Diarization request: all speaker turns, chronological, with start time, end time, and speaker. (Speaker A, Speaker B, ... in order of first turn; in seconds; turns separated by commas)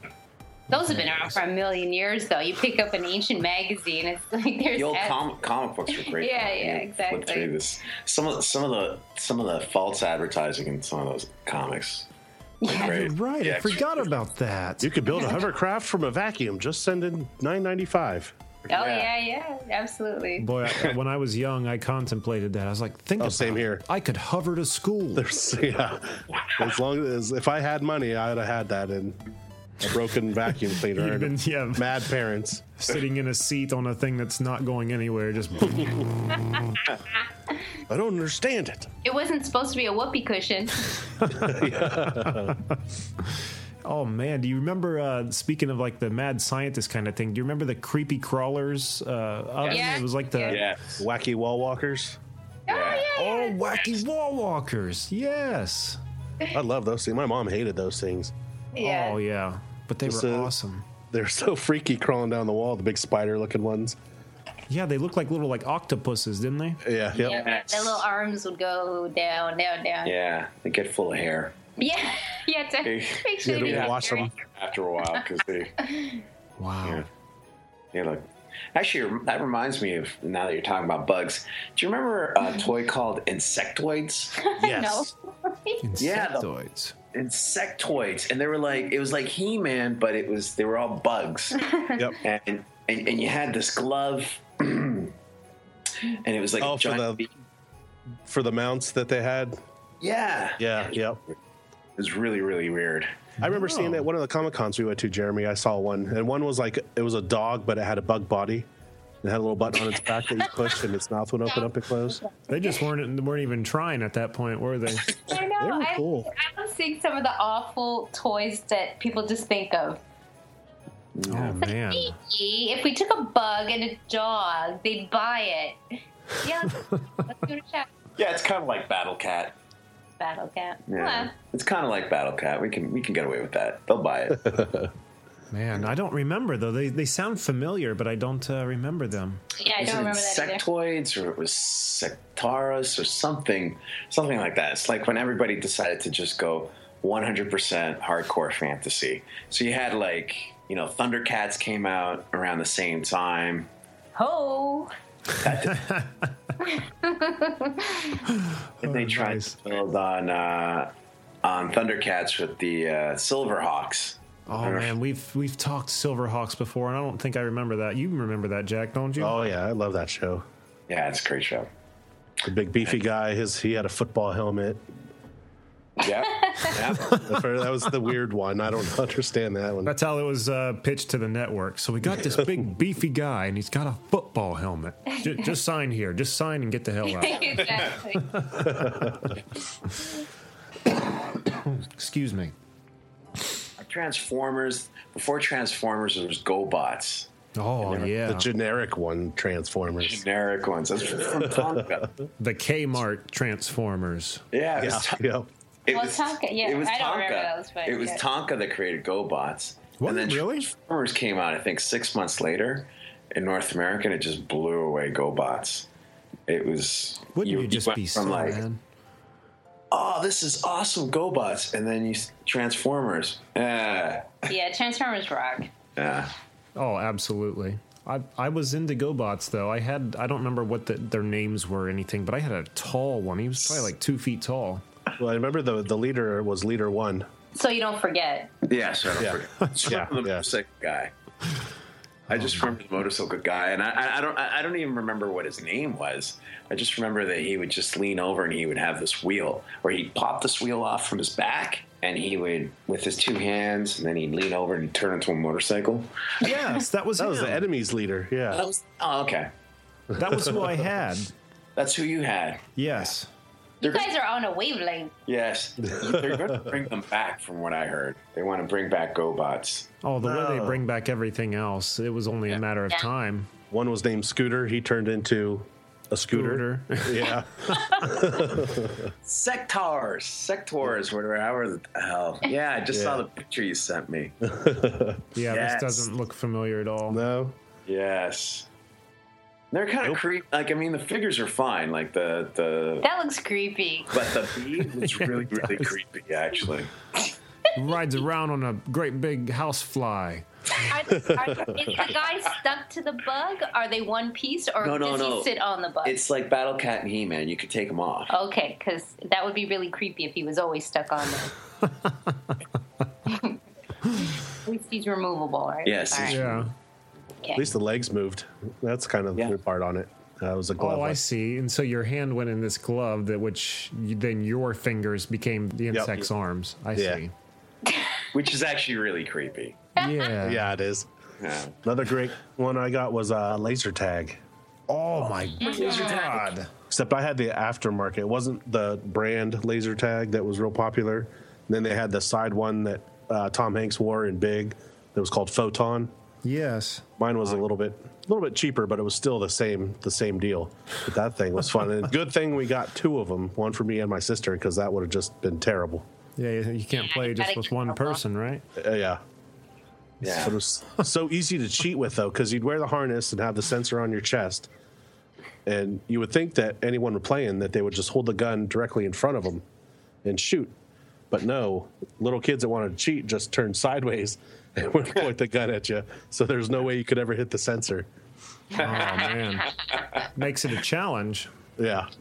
Speaker A: 0.7-5.2, Speaker B: 0.8-1.1, Speaker C: 4.7-12.1, Speaker A: 5.9-7.5, Speaker A: 12.6-12.9, Speaker C: 12.7-14.1, Speaker B: 12.7-14.9, Speaker D: 14.8-18.3, Speaker A: 18.7-20.4, Speaker C: 18.7-19.1, Speaker B: 20.4-25.3, Speaker D: 23.2-23.8, Speaker D: 25.1-29.2, Speaker D: 29.8-32.6, Speaker B: 30.9-32.0, Speaker B: 32.8-36.0, Speaker D: 37.9-38.9, Speaker A: 39.0-40.8, Speaker B: 41.2-41.6, Speaker D: 41.4-42.5, Speaker B: 42.2-42.8, Speaker B: 43.8-50.6, Speaker C: 49.6-50.8, Speaker A: 49.7-50.6, Speaker D: 51.0-52.2, Speaker A: 52.7-53.5, Speaker C: 52.7-53.0, Speaker B: 53.1-56.0, Speaker D: 56.5-58.3, Speaker A: 58.8-59.2, Speaker B: 58.8-60.9, Speaker D: 60.0-60.5, Speaker D: 61.1-64.0, Speaker B: 64.7-66.8, Speaker D: 66.8-67.4, Speaker C: 67.2-68.0, Speaker A: 67.2-70.1, Speaker C: 70.0-71.5, Speaker A: 71.8-74.3, Speaker C: 72.8-75.7, Speaker D: 73.4-74.3, Speaker A: 75.8-76.2, Speaker B: 76.6-77.0, Speaker C: 77.9-84.3, Speaker A: 84.4-85.8, Speaker D: 84.6-85.1, Speaker B: 85.8-86.9, Speaker C: 86.0-86.4, Speaker C: 87.1-91.6, Speaker A: 91.6-92.0, Speaker C: 92.2-95.1, Speaker C: 96.2-97.3, Speaker D: 96.6-97.2, Speaker D: 98.2-99.6, Speaker C: 100.0-100.9, Speaker D: 100.6-101.2, Speaker C: 102.0-103.1, Speaker B: 103.4-104.0, Speaker D: 103.4-108.7, Speaker D: 109.2-112.2, Speaker A: 112.2-112.7, Speaker B: 112.5-115.1, Speaker A: 115.3-120.0, Speaker D: 115.6-116.3, Speaker C: 121.2-121.6, Speaker B: 121.3-122.1, Speaker A: 121.6-125.8, Speaker A: 126.4-127.9, Speaker C: 128.2-129.5, Speaker A: 130.2-131.3, Speaker C: 130.9-134.5, Speaker D: 134.4-134.9, Speaker B: 135.5-139.4, Speaker A: 139.6-140.6, Speaker C: 139.8-153.7, Speaker A: 154.2-154.9, Speaker C: 155.4-155.8, Speaker B: 155.7-156.2, Speaker A: 156.7-158.2, Speaker B: 158.3-159.6, Speaker C: 158.8-160.9, Speaker C: 161.4-164.9, Speaker B: 164.5-169.4, Speaker D: 169.2-170.4, Speaker C: 170.9-171.7, Speaker D: 172.4-174.8, Speaker C: 176.0-177.2, Speaker A: 176.4-176.7, Speaker D: 177.2-179.9, Speaker B: 179.8-187.7, Speaker D: 182.3-182.6, Speaker A: 187.1-188.2, Speaker B: 188.3-189.1, Speaker D: 188.6-189.3, Speaker B: 191.5-192.5, Speaker C: 193.8-197.3, Speaker B: 197.6-198.5, Speaker D: 197.9-200.2, Speaker C: 200.0-202.1, Speaker D: 201.4-201.8, Speaker B: 202.4-204.4, Speaker C: 204.5-205.2, Speaker D: 204.8-205.5, Speaker C: 205.8-215.9, Speaker A: 205.9-208.2, Speaker B: 210.0-210.7, Speaker C: 216.5-218.6, Speaker B: 217.3-218.8, Speaker C: 219.9-224.5, Speaker A: 224.5-225.7, Speaker C: 226.0-226.3, Speaker B: 226.8-234.8, Speaker D: 235.2-237.3, Speaker A: 237.5-238.5, Speaker C: 238.7-241.1, Speaker D: 239.2-240.4, Speaker C: 242.3-256.1, Speaker B: 256.4-257.6, Speaker D: 257.2-258.6, Speaker C: 258.5-259.5, Speaker B: 260.1-261.3, Speaker D: 260.2-260.8, Speaker C: 261.8-262.7, Speaker B: 262.8-263.3, Speaker C: 263.8-264.1, Speaker A: 263.8-265.1, Speaker C: 265.3-269.9, Speaker D: 265.9-266.7, Speaker B: 270.0-273.5, Speaker D: 270.2-270.8, Speaker D: 273.7-279.1, Speaker B: 276.3-277.2, Speaker C: 279.2-284.3, Speaker D: 282.9-283.2, Speaker D: 284.4-285.2, Speaker B: 285.4-287.2, Speaker C: 285.5-286.1, Speaker D: 287.1-287.6, Speaker C: 287.9-288.7, Speaker C: 289.7-293.1, Speaker A: 293.0-294.2, Speaker C: 294.1-296.9, Speaker B: 295.0-295.9, Speaker B: 297.8-300.4, Speaker A: 300.9-306.1, Speaker D: 301.3-301.6, Speaker C: 304.8-305.5, Speaker C: 306.0-308.3, Speaker A: 308.3-311.5, Speaker A: 313.3-313.6, Speaker A: 314.6-316.4, Speaker C: 315.8-316.6, Speaker B: 316.3-316.7, Speaker D: 317.6-321.2, Speaker B: 320.8-327.3, Speaker D: 325.9-326.2, Speaker D: 326.9-327.2, Speaker C: 328.3-329.8, Speaker B: 330.0-330.7, Speaker D: 330.4-331.1, Speaker C: 331.4-331.7, Speaker D: 331.8-334.4, Speaker B: 334.9-336.7, Speaker A: 335.6-336.2, Speaker C: 335.6-336.4, Speaker D: 336.9-346.1, Speaker B: 346.4-347.0, Speaker D: 347.2-356.1, Speaker B: 356.4-358.6, Speaker A: 356.9-358.2, Speaker D: 358.8-359.2, Speaker C: 360.2-360.6, Speaker D: 360.2-364.7, Speaker D: 365.6-369.6, Speaker D: 370.2-370.7, Speaker D: 371.3-378.1, Speaker B: 378.8-379.7, Speaker B: 380.3-381.5, Speaker D: 381.8-382.1